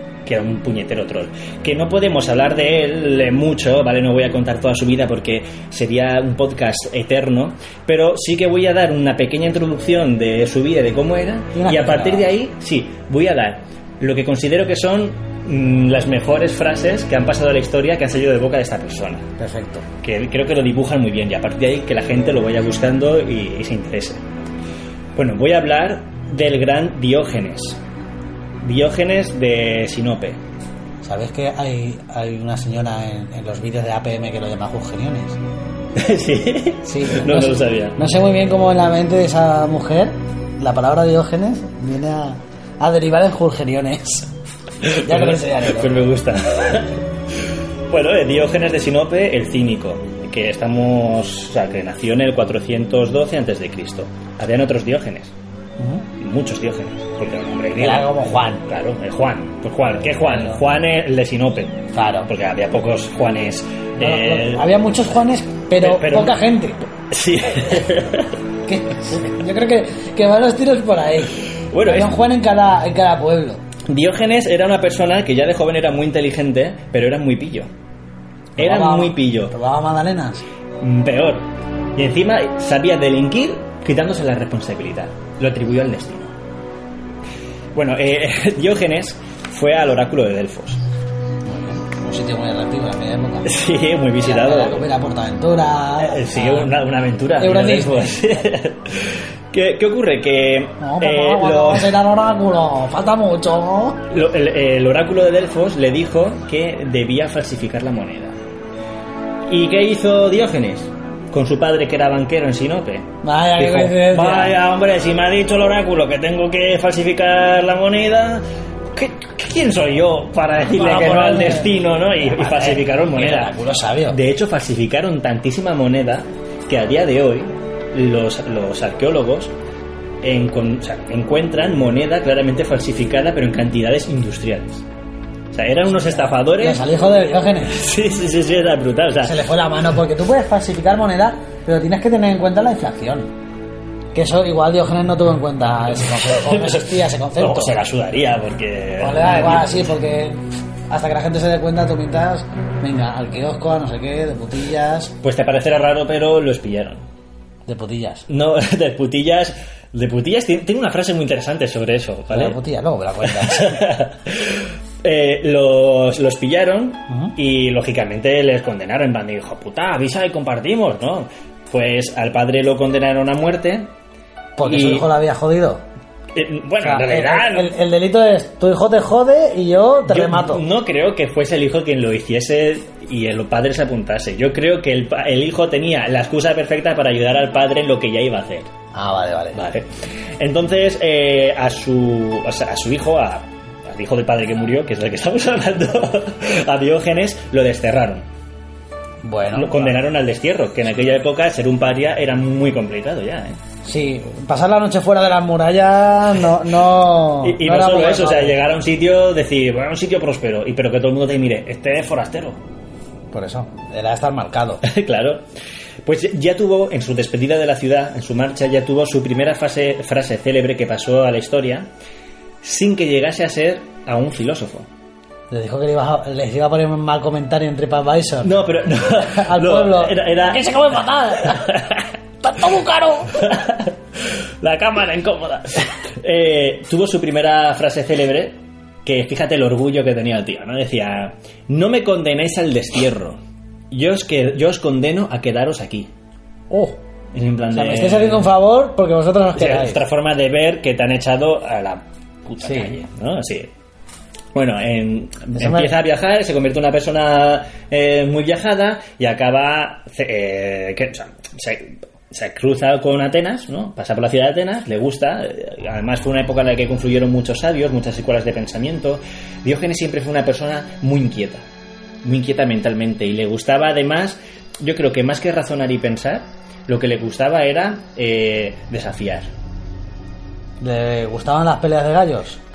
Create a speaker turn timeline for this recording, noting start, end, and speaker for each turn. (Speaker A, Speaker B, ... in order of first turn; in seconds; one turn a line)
Speaker A: 0.2-19.3
Speaker B: 11.5-12.3
Speaker B: 19.4-19.9
Speaker A: 20.0-24.2
Speaker A: 25.1-27.8
Speaker A: 28.6-30.4
Speaker B: 31.0-35.4
Speaker A: 35.9-38.0
Speaker B: 36.8-44.3
Speaker A: 44.8-55.3
Speaker B: 44.9-46.0
Speaker B: 55.8-56.1
Speaker A: 56.2-64.7
Speaker B: 57.8-58.6
Speaker B: 60.2-60.6
Speaker B: 61.9-62.3
Speaker B: 64.0-66.9
Speaker A: 65.8-66.4
Speaker A: 67.1-68.4
Speaker B: 68.7-73.6
Speaker A: 71.7-72.1
Speaker A: 73.9-77.7
Speaker B: 78.6-80.4
Speaker A: 78.6-79.5
Speaker A: 80.8-86.3
Speaker A: 87.8-90.8
Speaker B: 91.4-93.6
Speaker A: 93.4-94.9
Speaker B: 94.2-96.7
Speaker A: 96.0-102.0
Speaker B: 97.4-98.4
Speaker B: 100.8-104.1
Speaker A: 104.1-108.4
Speaker A: 109.5-123.5
Speaker B: 113.2-114.6
Speaker B: 120.7-124.2
Speaker A: 124.1-129.5
Speaker A: 130.2-134.9
Speaker A: 135.5-136.8
Speaker B: 135.9-137.8
Speaker A: 137.7-139.4
Speaker B: 139.2-143.3
Speaker B: 144.1-147.8
Speaker A: 146.0-149.8
Speaker B: 149.0-155.2
Speaker A: 155.2-157.0
Speaker B: 157.7-158.3
Speaker A: 158.3-162.6
Speaker B: 162.3-163.9
Speaker A: 163.2-173.9
Speaker B: 167.1-167.3
Speaker B: 174.6-175.8
Speaker A: 174.6-175.1
Speaker A: 176.3-177.7
Speaker B: 176.8-180.6
Speaker A: 180.1-188.7
Speaker B: 188.9-189.7
Speaker A: 189.5-198.3
Speaker B: 199.2-199.9
Speaker A: 199.5-203.6
Speaker B: 203.8-208.6
Speaker A: 207.4-212.6
Speaker B: 213.3-214.8
Speaker A: 214.8-215.4
Speaker A: 216.0-221.9
Speaker A: 222.6-224.9
Speaker B: 225.5-228.5
Speaker A: 228.4-232.1
Speaker B: 229.1-231.8
Speaker B: 232.4-233.4
Speaker A: 233.3-243.4
Speaker A: 243.9-246.1
Speaker B: 246.7-247.0
Speaker A: 247.3-248.5
Speaker B: 247.7-250.0
Speaker A: 249.6-253.7
Speaker B: 252.6-252.9
Speaker A: 254.5-271.6
Speaker B: 255.5-255.9
Speaker A: 272.2-279.5
Speaker B: 280.8-282.6